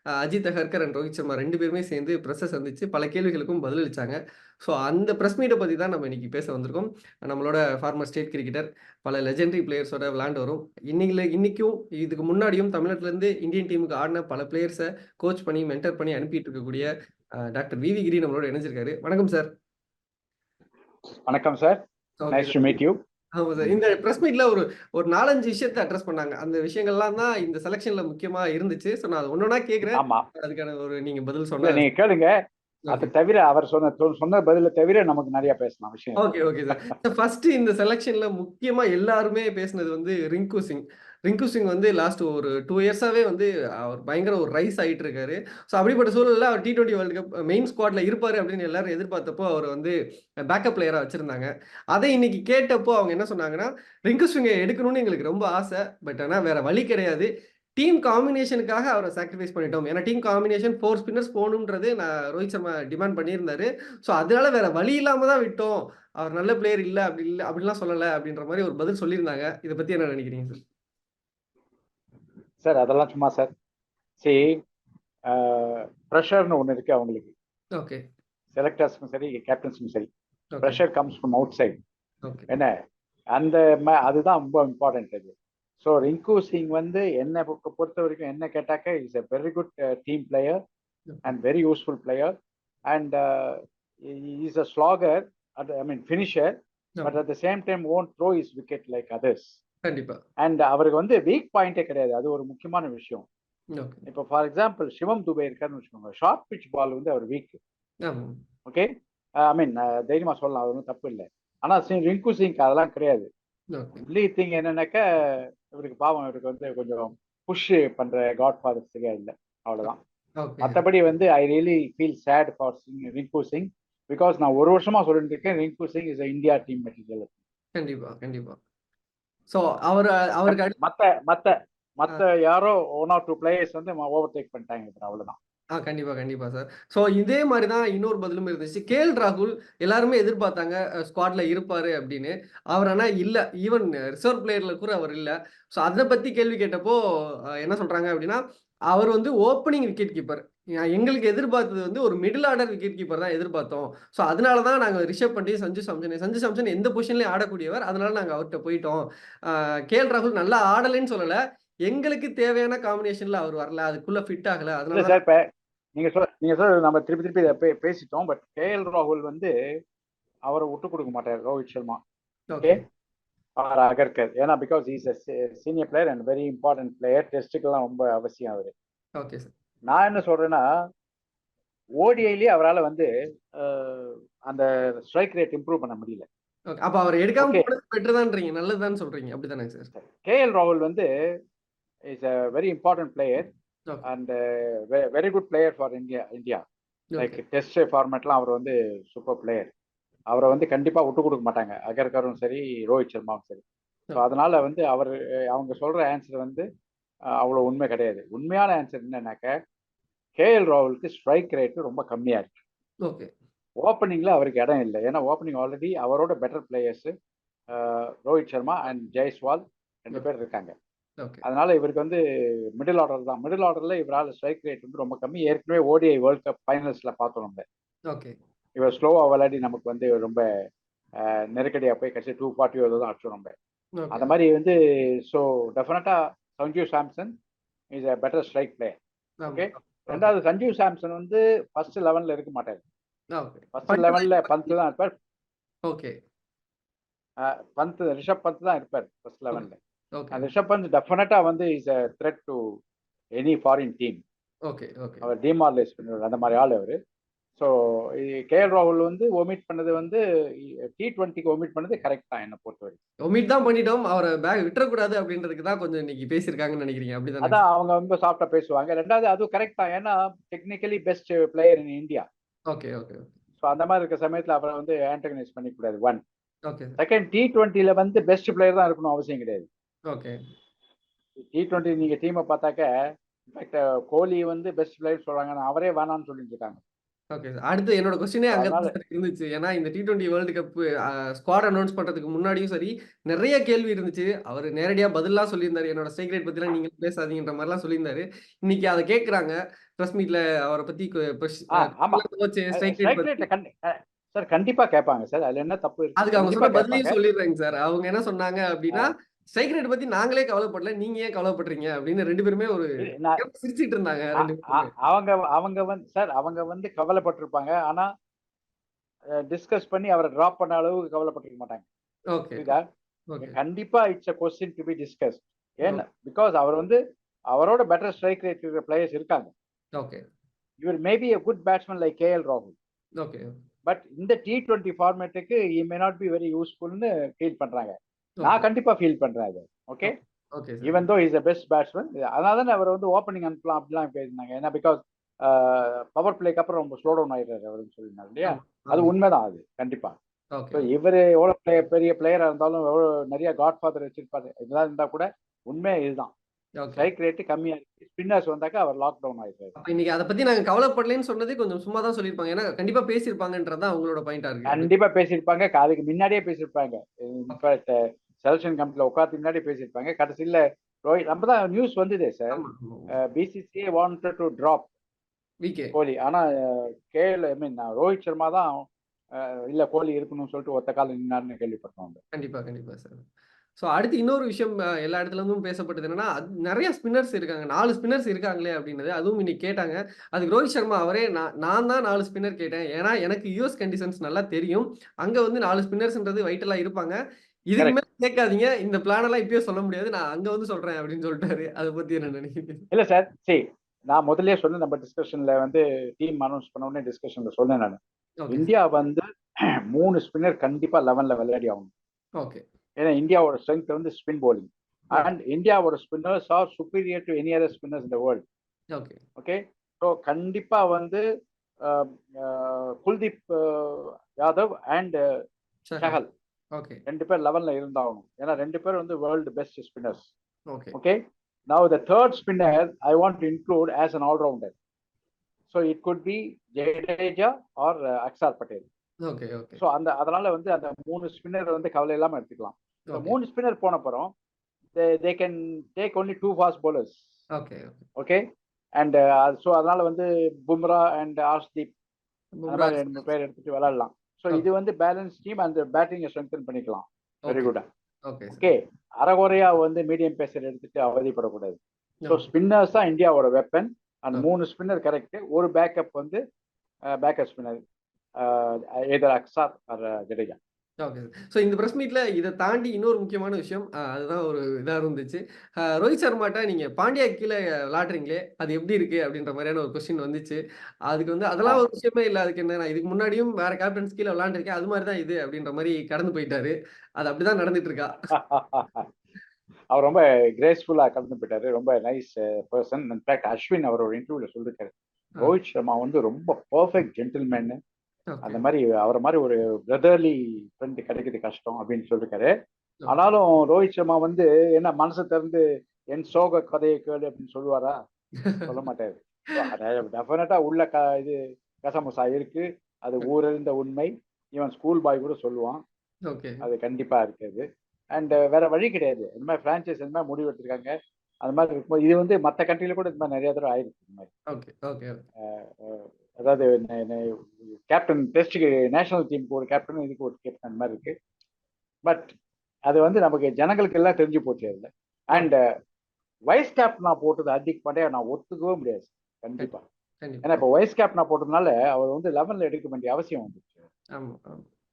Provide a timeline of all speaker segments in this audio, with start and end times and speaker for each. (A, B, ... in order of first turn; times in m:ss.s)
0:00.2-0:16.9 A
0:17.4-0:19.5 A
0:21.3-0:21.8 B
0:22.2-0:22.5 A
0:22.3-0:23.0 B
0:23.4-0:31.8 A
0:29.9-0:30.2 B
0:31.6-0:32.3 B
0:32.9-0:36.9 B
0:36.2-0:49.9 A
0:50.5-1:10.6 A
1:12.6-1:13.5 B
1:14.2-1:14.6 B
1:15.3-1:17.3 B
1:18.5-1:20.1 B
1:20.5-1:20.8 A
1:20.6-1:21.7 B
1:23.3-1:30.6 B
1:31.2-1:32.3 B
1:32.9-1:39.6 B
1:39.8-1:40.2 A
1:40.4-1:43.2 B
1:43.8-1:44.0 A
1:44.1-1:47.6 B
1:48.0-1:48.4 A
1:49.4-1:53.3 B
1:53.7-1:54.0 A
1:54.0-2:00.0 B
1:59.8-2:00.8 A
2:00.6-2:07.3 B
2:07.8-2:08.6 A
2:09.5-2:10.7 A
2:10.5-2:15.4 B
2:15.8-2:27.0 A
2:27.6-2:28.4 A
2:28.9-2:45.2 A
2:44.9-2:45.4 B
2:46.0-2:49.5 B
2:50.5-2:52.0 B
2:52.5-2:52.8 A
2:53.6-2:58.7 B
2:59.2-2:59.5 A
2:59.9-3:00.6 B
3:02.0-3:06.2 B
3:06.7-3:09.9 A
3:07.4-3:07.7 B
3:09.9-3:11.1 B
3:12.1-3:13.5 B
3:14.0-3:16.6 B
3:17.2-3:19.7 B
3:20.3-3:23.6 B
3:24.2-3:26.6 B
3:27.4-3:29.5 B
3:30.4-3:32.6 B
3:33.8-3:37.1 B
3:37.7-3:40.7 B
3:41.4-3:42.2 B
3:42.8-3:47.6 B
3:48.1-3:48.3 A
3:48.8-3:50.4 B
3:51.2-3:53.5 B
3:54.0-3:54.3 A
3:54.1-3:57.3 B
3:57.9-3:59.0 B
3:59.4-4:00.3 A
3:59.5-4:02.8 B
4:03.4-4:04.7 A
4:03.7-4:05.1 B
4:05.8-4:06.1 A
4:07.4-4:09.8 B
4:10.2-4:10.4 A
4:10.3-4:12.6 B
4:13.4-4:14.2 B
4:14.7-4:15.2 A
4:15.2-4:17.0 B
4:17.6-4:23.0 B
4:23.2-4:27.6 A
4:27.4-4:32.2 B
4:32.7-4:33.3 A
4:33.6-4:36.2 B
4:36.7-4:37.0 A
4:37.0-4:39.7 B
4:40.1-4:40.4 A
4:41.4-4:42.9 B
4:43.5-4:46.8 B
4:47.3-5:03.4 A
4:48.5-4:48.9 B
5:01.7-5:07.2 B
5:06.2-5:14.9 A
5:13.0-5:13.4 B
5:14.4-5:18.0 B
5:19.4-5:21.9 B
5:22.3-5:22.7 A
5:23.4-5:27.0 B
5:27.5-5:29.5 B
5:30.0-5:30.2 A
5:30.8-5:32.8 B
5:33.2-5:33.6 A
5:33.8-5:40.1 B
5:40.0-5:40.9 A
5:40.8-5:50.1 B
5:48.4-5:49.1 A
5:50.6-5:50.9 A
5:50.7-5:56.3 B
5:56.8-5:57.1 A
5:56.9-5:59.8 B
5:59.8-6:04.9 A
6:04.7-6:14.9 B
6:12.5-6:13.1 A
6:15.6-6:15.9 A
6:15.9-6:18.7 B
6:19.4-6:22.2 B
6:22.3-6:23.2 A
6:23.8-6:37.2 A
6:37.7-6:42.8 A
6:42.9-6:48.0 B
6:48.4-6:48.7 A
6:48.5-6:49.2 B
6:49.9-6:51.9 B
6:53.0-6:58.4 B
6:58.9-6:59.2 A
6:59.4-7:01.2 B
7:01.8-7:05.3 B
7:05.9-7:06.2 A
7:06.0-7:06.3 B
7:06.7-7:07.0 A
7:07.0-7:10.3 B
7:10.9-7:11.2 B
7:11.7-7:14.7 B
7:15.7-7:18.8 B
7:19.2-7:19.8 A
7:19.8-7:24.3 B
7:23.1-7:23.3 A
7:25.0-7:27.2 B
7:27.6-7:28.0 A
7:28.2-7:28.4 B
7:29.0-7:31.9 B
7:32.6-7:33.3 A
7:32.7-7:37.8 B
7:37.4-7:37.7 A
7:38.3-7:38.7 A
7:38.5-7:46.4 B
7:47.2-7:47.8 B
7:48.4-7:50.6 B
7:51.0-8:08.3 A
8:08.3-8:09.1 B
8:09.9-8:17.8 B
8:18.3-8:18.6 A
8:18.4-8:22.5 B
8:23.1-8:28.0 B
8:28.7-8:35.8 B
8:36.3-8:36.6 A
8:36.6-8:40.9 B
8:41.4-8:44.3 B
8:44.5-8:45.2 A
8:45.4-8:51.1 B
8:52.0-8:52.3 B
8:52.9-8:55.6 B
8:56.5-8:59.8 B
9:00.2-9:00.6 A
9:00.4-9:03.8 B
9:04.2-9:04.7 A